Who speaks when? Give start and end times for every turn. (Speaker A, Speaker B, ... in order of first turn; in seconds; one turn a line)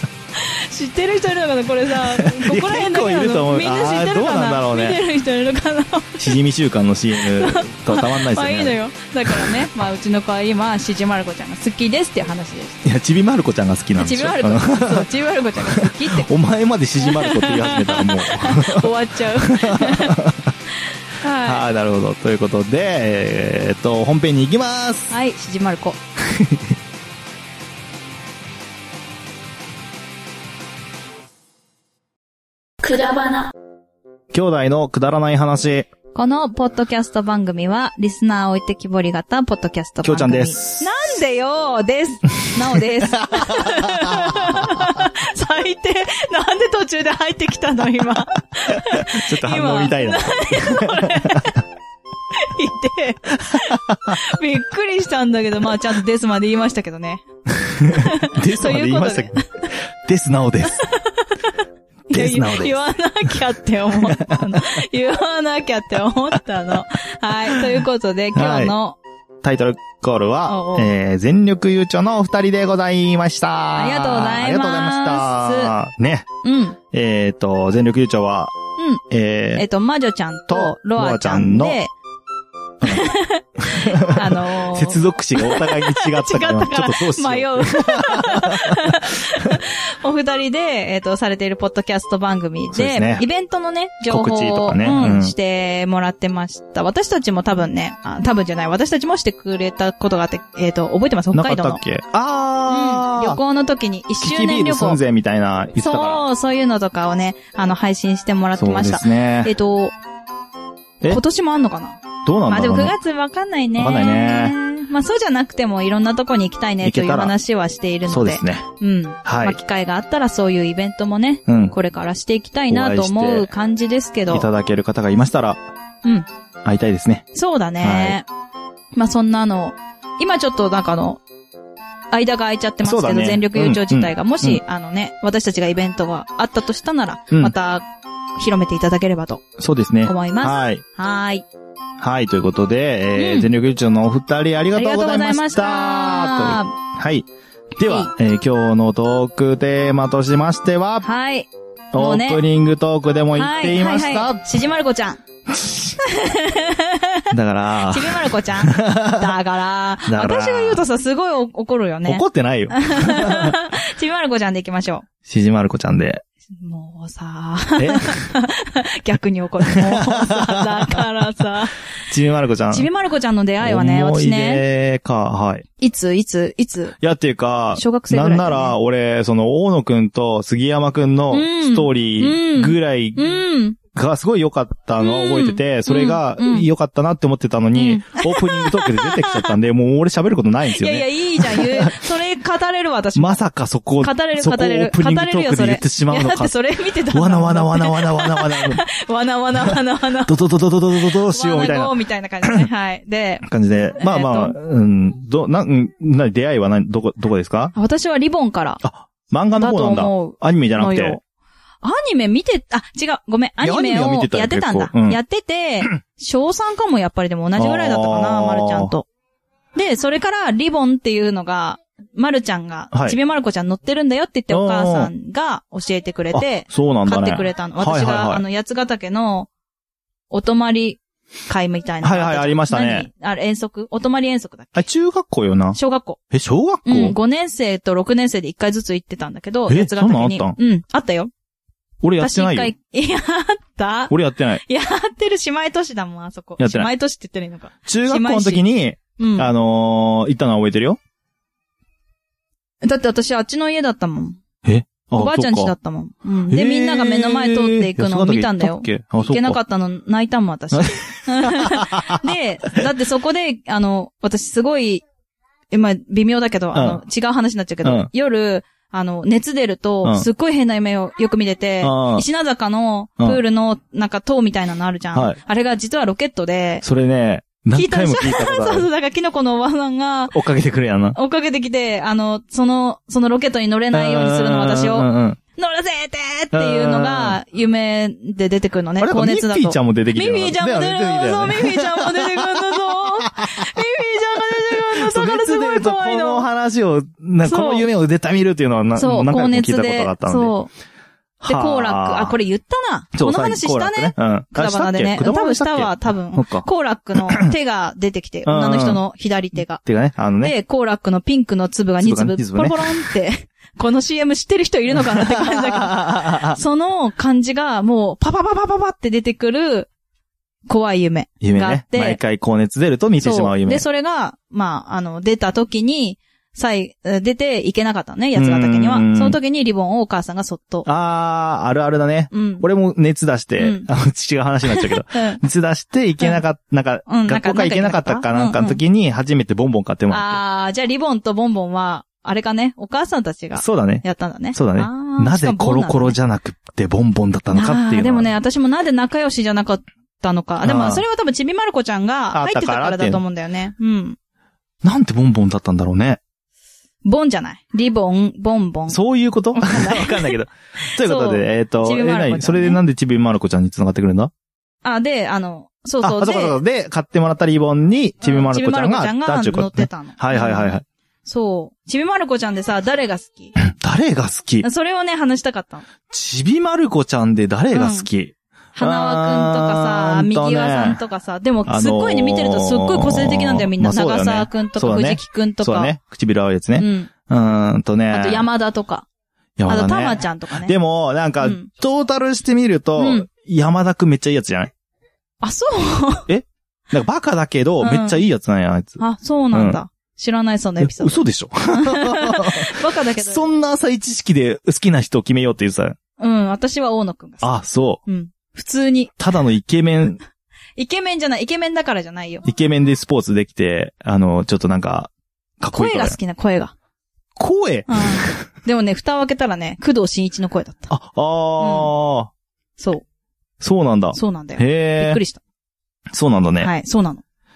Speaker A: 0.4-6.4
Speaker B: 2.2-5.0
Speaker B: 6.2-8.8
Speaker A: 7.2-12.9
Speaker B: 9.3-9.7
Speaker B: 12.8-20.5
Speaker A: 14.0-16.3
Speaker A: 17.0-20.3
Speaker A: 20.8-21.6
Speaker B: 21.4-25.1
Speaker A: 25.1-26.0
Speaker B: 26.3-26.6
Speaker A: 32.8-33.5
Speaker B: 34.3-35.9
Speaker A: 36.1-51.6
Speaker B: 40.0-41.1
Speaker B: 43.2-44.7
Speaker B: 49.0-51.6
Speaker A: 52.3-57.2
Speaker B: 53.5-54.2
Speaker B: 57.6-59.4
Speaker A: 57.8-59.7
Speaker B: 60.0-60.9
Speaker A: 60.7-69.0
Speaker B: 62.1-62.9
Speaker B: 63.9-64.8
Speaker B: 67.5-67.8
Speaker B: 68.3-68.8
Speaker B: 69.4-76.3
Speaker A: 70.5-70.9
Speaker A: 73.8-75.8
Speaker A: 76.4-76.8
Speaker B: 76.9-78.5
Speaker A: 78.8-79.0
Speaker B: 79.1-79.7
Speaker A: 79.5-81.9
Speaker B: 80.5-81.8
Speaker B: 82.8-89.6
Speaker A: 82.8-101.8
Speaker B: 92.7-93.2
Speaker B: 94.1-95.3
Speaker B: 101.3-103.4
Speaker A: 102.7-105.0
Speaker B: 104.2-106.2
Speaker A: 105.8-110.0
Speaker B: 108.6-109.5
Speaker A: 111.0-124.5
Speaker B: 112.2-113.0
Speaker B: 113.8-114.6
Speaker B: 116.8-117.3
Speaker B: 118.1-118.7
Speaker B: 119.2-119.6
Speaker B: 121.5-121.7
Speaker B: 122.7-123.5
Speaker B: 124.3-125.6
Speaker B: 126.7-127.2
Speaker A: 127.3-128.3
Speaker B: 127.8-128.2
Speaker A: 128.9-131.2
Speaker A: 132.1-137.8
Speaker B: 132.8-134.6
Speaker A: 138.4-139.4
Speaker B: 139.6-140.8
Speaker A: 140.1-141.5
Speaker B: 142.0-147.3
Speaker A: 143.2-143.5
Speaker A: 144.8-146.8
Speaker B: 147.8-151.1
Speaker A: 147.8-148.1
Speaker A: 151.0-152.4
Speaker B: 151.9-154.4
Speaker A: 153.3-155.2
Speaker B: 155.5-155.9
Speaker A: 156.0-157.2
Speaker B: 157.3-159.4
Speaker A: 157.8-165.1
Speaker B: 160.1-160.8
Speaker B: 162.1-163.6
Speaker B: 165.3-166.2
Speaker A: 166.6-171.8
Speaker B: 167.8-168.3
Speaker B: 169.7-171.1
Speaker B: 172.1-172.9
Speaker A: 172.7-174.6
Speaker B: 173.6-175.7
Speaker A: 175.8-177.0
Speaker B: 177.0-183.4
Speaker A: 177.8-178.7
Speaker A: 181.3-183.8
Speaker B: 183.9-192.0
Speaker A: 185.0-186.7
Speaker A: 187.8-189.5
Speaker A: 190.7-193.4
Speaker B: 193.2-196.6
Speaker A: 194.0-200.4
Speaker B: 197.1-198.8
Speaker B: 199.7-202.7
Speaker A: 200.9-203.5
Speaker B: 203.4-207.7
Speaker A: 204.0-204.6
Speaker A: 207.7-208.8
Speaker B: 208.8-211.2
Speaker A: 209.6-211.2
Speaker A: 211.8-219.1
Speaker B: 213.6-215.2
Speaker B: 217.6-218.9
Speaker A: 219.8-229.5
Speaker B: 222.9-223.2
Speaker B: 224.5-225.1
Speaker B: 226.3-228.4
Speaker A: 230.3-234.9
Speaker B: 232.0-233.1
Speaker B: 234.8-235.8
Speaker A: 235.7-236.2
Speaker B: 236.3-237.2
Speaker A: 236.9-241.3
Speaker B: 239.7-240.6
Speaker B: 242.0-242.7
Speaker A: 242.2-248.6
Speaker B: 244.1-244.6
Speaker B: 246.6-246.9
Speaker B: 247.9-251.0
Speaker A: 249.2-249.5
Speaker A: 252.8-254.4
Speaker B: 254.7-255.7
Speaker A: 255.1-265.1
Speaker B: 256.5-259.6
Speaker B: 260.7-262.2
Speaker A: 265.7-276.8
Speaker B: 266.7-267.0
Speaker B: 267.8-268.1
Speaker B: 271.8-272.2
Speaker B: 275.1-275.4
Speaker B: 276.8-278.9
Speaker A: 277.7-280.4
Speaker B: 280.3-281.2
Speaker A: 281.1-296.5
Speaker B: 283.9-285.4
Speaker B: 286.5-287.4
Speaker B: 289.0-293.4
Speaker B: 295.0-300.6
Speaker A: 297.4-297.9
Speaker A: 299.0-300.7
Speaker B: 301.4-302.4
Speaker A: 301.4-309.8
Speaker B: 303.1-306.7
Speaker B: 307.2-307.5
Speaker B: 308.4-309.0
Speaker B: 309.8-310.6
Speaker A: 310.4-319.9
Speaker B: 312.0-313.1
Speaker B: 315.1-316.6
Speaker A: 320.7-322.2
Speaker B: 321.4-323.9
Speaker A: 323.2-330.9
Speaker B: 328.4-329.4
Speaker B: 330.9-340.4
Speaker A: 332.3-332.6
Speaker A: 333.6-333.9
Speaker A: 334.7-335.4
Speaker A: 337.1-338.8
Speaker A: 340.1-346.2
Speaker B: 343.6-348.3
Speaker A: 347.5-354.2
Speaker B: 350.6-351.0
Speaker B: 352.3-353.2
Speaker B: 354.8-356.2
Speaker A: 357.0-359.0
Speaker B: 358.9-364.3
Speaker A: 359.5-362.8
Speaker A: 364.8-366.6
Speaker B: 366.0-370.9
Speaker A: 368.2-373.6
Speaker B: 373.6-374.7
Speaker A: 374.6-375.9
Speaker B: 376.1-381.0
Speaker A: 377.7-378.1
Speaker A: 378.8-385.9
Speaker B: 381.7-388.5
Speaker A: 386.8-387.1
Speaker A: 388.1-389.1
Speaker B: 389.6-394.7
Speaker A: 389.7-390.7
Speaker A: 391.4-391.7
Speaker A: 393.0-393.3
Speaker A: 395.4-396.3
Speaker B: 396.3-399.0
Speaker A: 397.8-398.2
Speaker A: 399.0-403.5
Speaker B: 399.5-399.8
Speaker B: 400.8-406.0
Speaker A: 406.2-409.2
Speaker B: 407.4-408.0
Speaker B: 409.2-410.2
Speaker A: 410.8-412.5
Speaker B: 412.4-416.2
Speaker A: 415.7-416.7
Speaker B: 417.4-418.5
Speaker A: 417.9-420.9
Speaker B: 420.9-422.3
Speaker A: 421.6-421.9
Speaker A: 422.8-423.0
Speaker B: 423.6-425.2
Speaker A: 424.1-425.4
Speaker B: 426.1-426.7
Speaker A: 426.6-427.2